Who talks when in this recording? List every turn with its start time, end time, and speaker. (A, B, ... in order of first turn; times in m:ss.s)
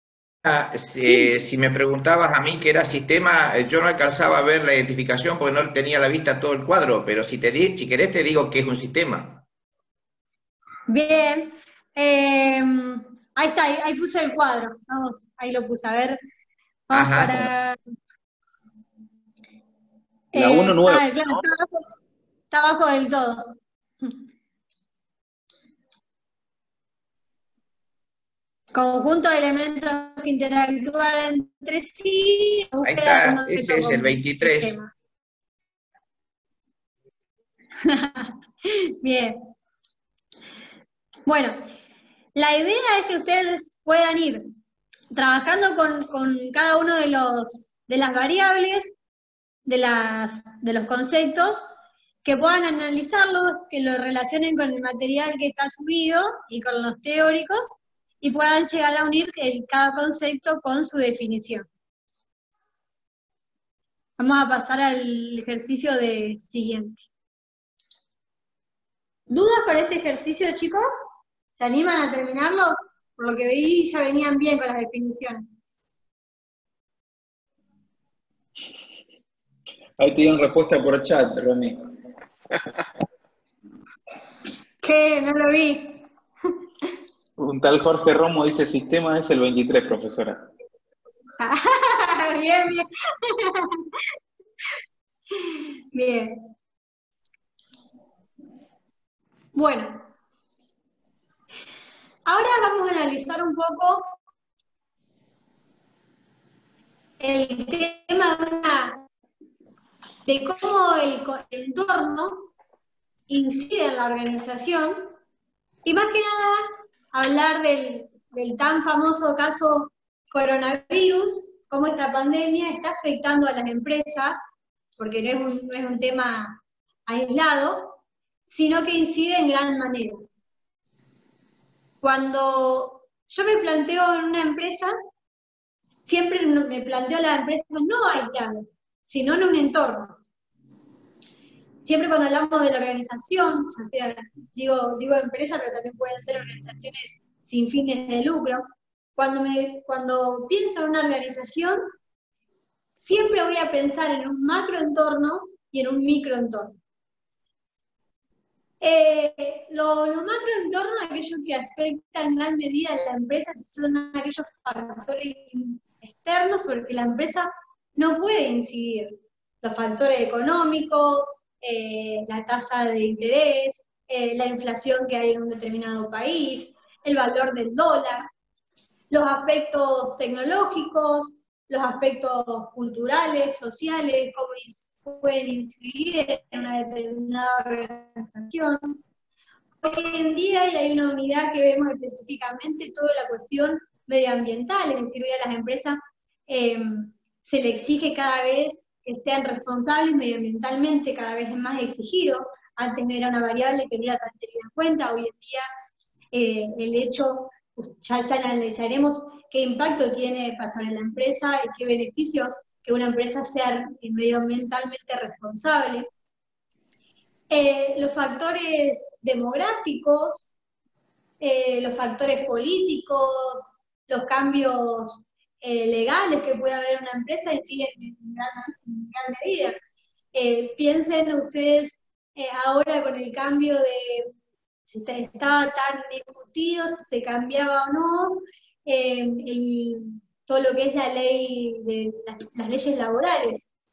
0:00.4-0:09.4 A
0:01.0-0:01.3 B
0:10.9-0:16.2 B
0:16.9-0:17.8 B
0:16.9-0:17.5 A
0:20.3-0:21.8 B
0:20.3-0:21.4 C
0:22.5-0:24.2 B
0:28.7-0:34.9 B
0:32.8-0:34.8 A
0:37.8-0:39.5 B
0:41.2-0:41.7 B
0:42.3-0:44.5 B
0:45.1-0:48.9 B
0:49.6-0:51.7 B
0:52.2-1:01.6 B
1:04.2-1:07.1 B
1:09.3-1:10.9 B
1:11.6-1:15.5 B
1:20.0-1:22.0 C
1:24.8-1:26.1 B
1:27.4-1:30.4 C
1:31.4-1:33.9 B
1:35.3-1:36.5 B
1:39.5-1:40.1 B
1:42.3-1:44.1 B
1:47.2-1:49.0 B
1:50.2-1:52.5 B
1:53.3-1:55.1 B
1:55.8-2:04.5 B
2:05.0-2:08.0 B
2:08.5-2:10.3 B
2:12.0-2:14.9 B
2:16.1-2:20.2 B
2:21.8-2:28.6 B
2:29.2-2:31.8 B
2:33.0-2:36.8 B
2:38.8-2:58.3 B
2:59.1-3:09.0 B
3:09.8-3:25.6 B
3:26.3-3:36.1 B
3:37.5-3:40.5 B
3:41.4-3:49.8 B
3:50.3-3:54.3 B
3:54.9-4:03.7 B